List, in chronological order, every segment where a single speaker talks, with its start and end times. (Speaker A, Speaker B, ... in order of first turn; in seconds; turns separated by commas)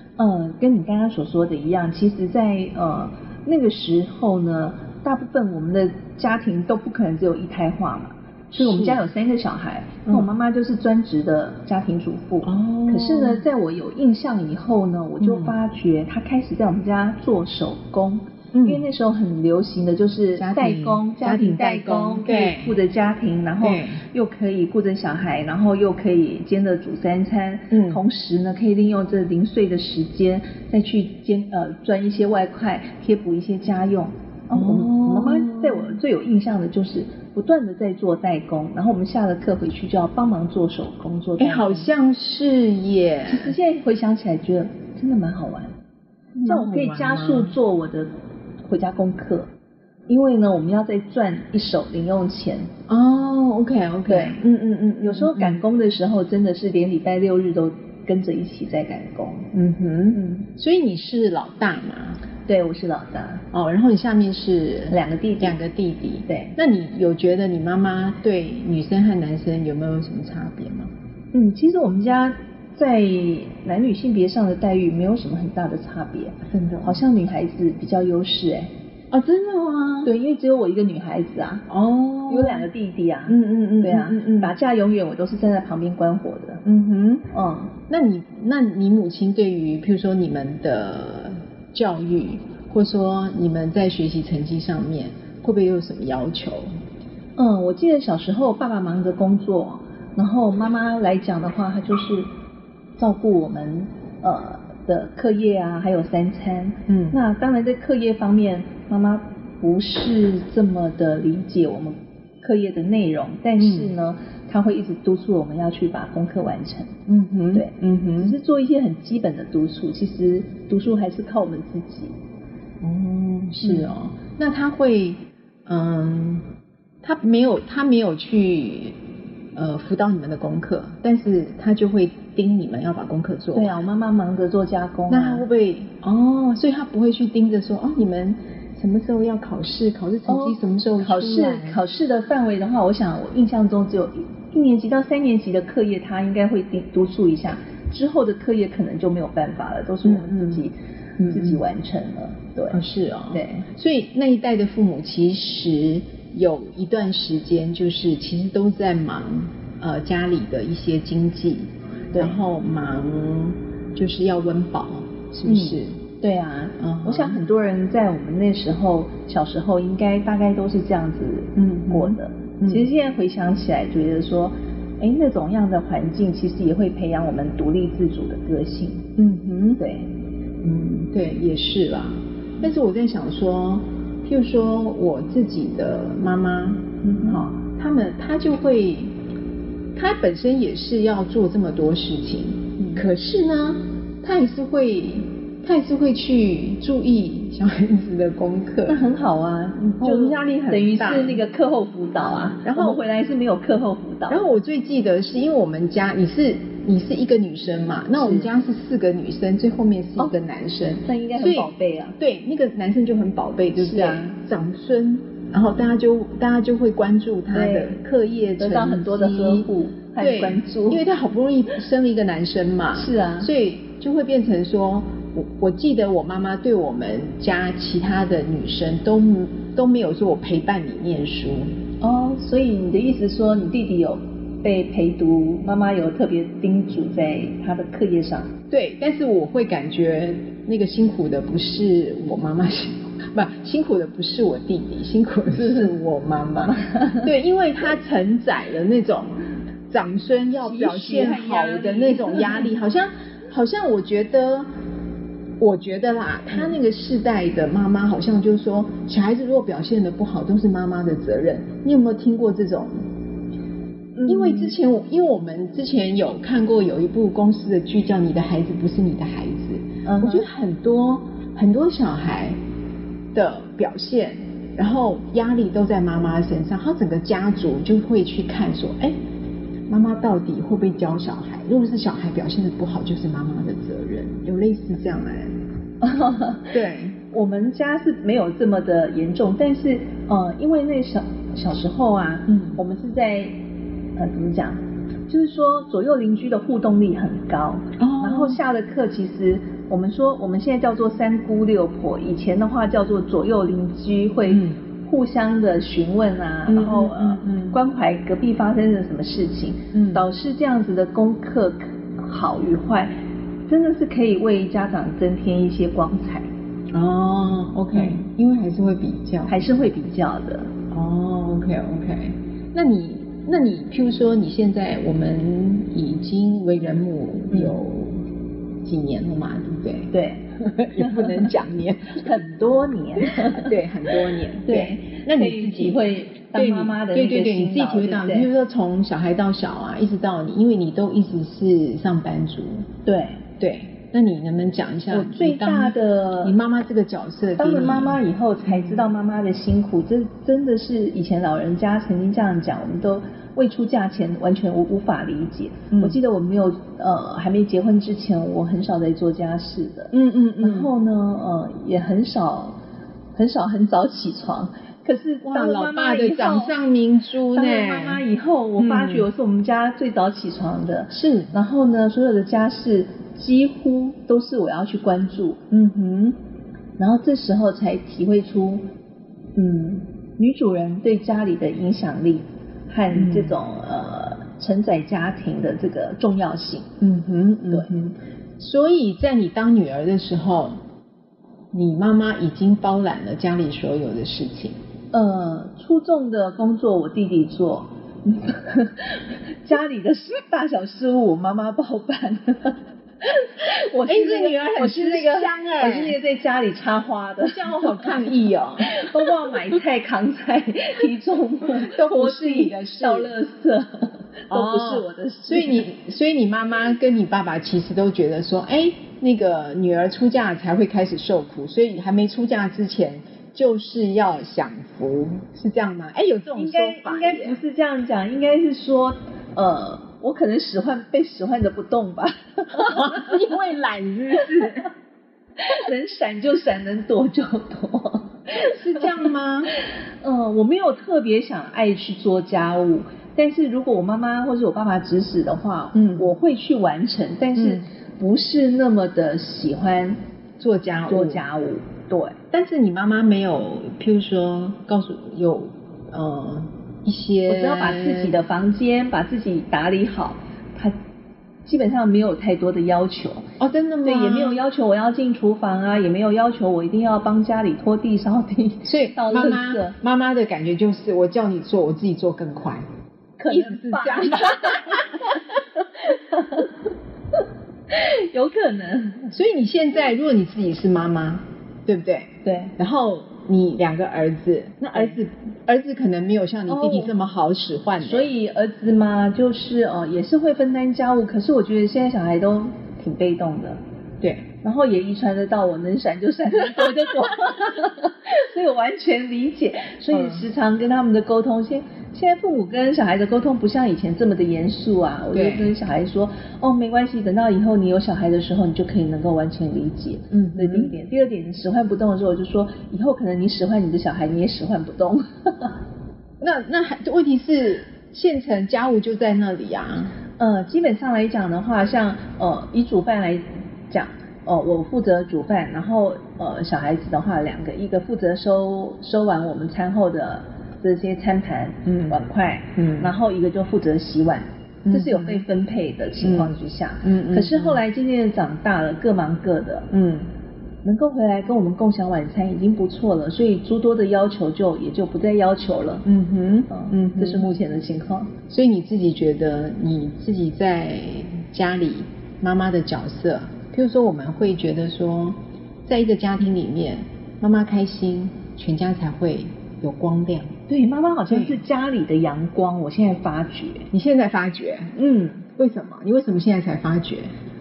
Speaker A: 0.2-41.9, Speaker B: 8.5-9.0, Speaker B: 12.4-13.4, Speaker B: 15.2-15.6, Speaker B: 18.5-18.9, Speaker B: 20.3-22.8, Speaker B: 23.6-24.0, Speaker B: 27.7-28.0, Speaker B: 34.5-36.0, Speaker B: 41.4-43.5, Speaker A: 43.3-45.7, Speaker B: 46.3-47.5, Speaker A: 46.5-48.1, Speaker A: 48.6-49.5, Speaker A: 50.1-52.7, Speaker B: 52.9-55.6, Speaker A: 54.1-54.4, Speaker A: 55.0-59.5, Speaker B: 59.5-62.2, Speaker A: 60.1-60.5, Speaker A: 62.4-63.4, Speaker B: 63.5-70.9, Speaker A: 64.9-65.5, Speaker A: 66.3-66.5, Speaker A: 71.3-78.7, Speaker B: 76.5-77.0, Speaker B: 79.1-80.1, Speaker A: 80.0-81.7, Speaker B: 81.7-82.7, Speaker A: 82.3-86.6, Speaker B: 83.3-84.5, Speaker B: 86.6-87.3, Speaker A: 87.3-87.7, Speaker B: 87.9-96.7, Speaker A: 97.3-102.3, Speaker A: 103.0-117.0, Speaker B: 106.9-107.2, Speaker B: 113.6-113.9, Speaker B: 117.1-118.4, Speaker A: 117.5-122.1, Speaker B: 122.8-126.5, Speaker A: 123.6-123.9, Speaker B: 127.0-129.0, Speaker B: 129.5-133.9, Speaker A: 133.5-135.4, Speaker B: 135.1-141.8, Speaker A: 140.2-150.7, Speaker B: 150.0-150.7, Speaker B: 151.2-151.6, Speaker A: 151.3-153.7, Speaker B: 152.7-166.0, Speaker A: 165.4-179.1, Speaker B: 166.8-167.4, Speaker B: 171.6-172.9, Speaker B: 179.2-179.8, Speaker A: 179.8-180.1, Speaker B: 180.6-189.1, Speaker A: 187.0-187.5, Speaker B: 189.9-199.1, Speaker A: 192.8-193.0, Speaker A: 198.8-204.4, Speaker B: 199.8-201.4, Speaker B: 202.6-203.0, Speaker B: 204.3-231.7, Speaker A: 208.1-208.5, Speaker A: 211.0-212.2, Speaker A: 213.8-214.3, Speaker A: 217.5-217.9, Speaker A: 218.6-221.0, Speaker A: 222.9-223.5, Speaker A: 232.0-238.5, Speaker B: 238.7-254.7, Speaker A: 245.6-245.9, Speaker A: 246.6-247.3, Speaker A: 250.6-252.7, Speaker B: 255.6-263.0, Speaker A: 264.1-264.7, Speaker B: 264.2-272.6, Speaker A: 270.0-270.4, Speaker B: 273.3-279.1, Speaker B: 279.9-285.5, Speaker A: 286.0-293.6, Speaker B: 286.7-287.2, Speaker B: 292.5-292.8, Speaker A: 294.2-313.1, Speaker B: 298.0-298.6, Speaker B: 304.5-304.8, Speaker B: 306.7-307.8, Speaker B: 309.9-310.3, Speaker A: 313.6-316.5, Speaker B: 316.9-319.6, Speaker A: 317.9-318.2, Speaker A: 319.5-320.7, Speaker B: 320.9-328.2, Speaker A: 327.5-327.8, Speaker B: 328.8-332.4, Speaker A: 330.1-331.5, Speaker A: 332.1-333.8, Speaker B: 333.2-342.9, Speaker A: 334.6-338.5, Speaker A: 343.0-343.4, Speaker B: 343.6-349.1, Speaker A: 345.1-346.6, Speaker A: 347.6-362.8, Speaker B: 355.9-356.2, Speaker B: 360.1-360.9, Speaker A: 363.3-366.8, Speaker B: 365.4-368.2, Speaker A: 367.5-375.6, Speaker B: 368.8-369.3, Speaker B: 371.1-371.5, Speaker B: 375.7-376.4, Speaker A: 377.0-378.8, Speaker A: 379.6-386.9, Speaker B: 383.1-383.6, Speaker B: 387.0-390.8, Speaker B: 391.7-394.8, Speaker A: 395.1-415.9, Speaker B: 404.1-406.2, Speaker B: 407.4-409.5, Speaker B: 411.8-413.3, Speaker B: 414.5-427.6, Speaker A: 426.5-433.4, Speaker B: 432.7-434.9, Speaker A: 435.6-439.2, Speaker B: 438.6-439.7, Speaker A: 440.2-450.2, Speaker B: 445.9-446.3, Speaker B: 447.6-447.9, Speaker B: 450.6-451.4, Speaker A: 451.1-452.4, Speaker B: 452.5-458.3, Speaker A: 457.5-460.9, Speaker A: 461.6-463.5, Speaker B: 463.6-464.6, Speaker A: 464.0-469.9, Speaker B: 468.8-472.9, Speaker A: 473.4-475.4, Speaker B: 473.5-475.4, Speaker A: 476.0-476.7, Speaker A: 477.9-479.3, Speaker B: 479.3-488.3, Speaker A: 482.4-482.7, Speaker A: 486.7-487.1, Speaker A: 488.0-493.8, Speaker B: 494.2-494.5, Speaker A: 494.6-515.8, Speaker B: 500.1-500.5, Speaker B: 505.3-505.7, Speaker B: 510.3-510.9, Speaker B: 516.4-520.1, Speaker A: 520.4-539.9, Speaker B: 531.9-532.2, Speaker B: 532.8-533.1, Speaker B: 534.8-535.4, Speaker B: 536.2-537.8, Speaker B: 539.9-540.3, Speaker A: 540.8-546.1, Speaker B: 546.0-547.5, Speaker A: 546.7-548.3, Speaker B: 548.5-560.5, Speaker A: 560.7-563.9, Speaker B: 561.3-561.6, Speaker B: 563.9-565.0, Speaker A: 565.0-565.5, Speaker B: 565.5-567.3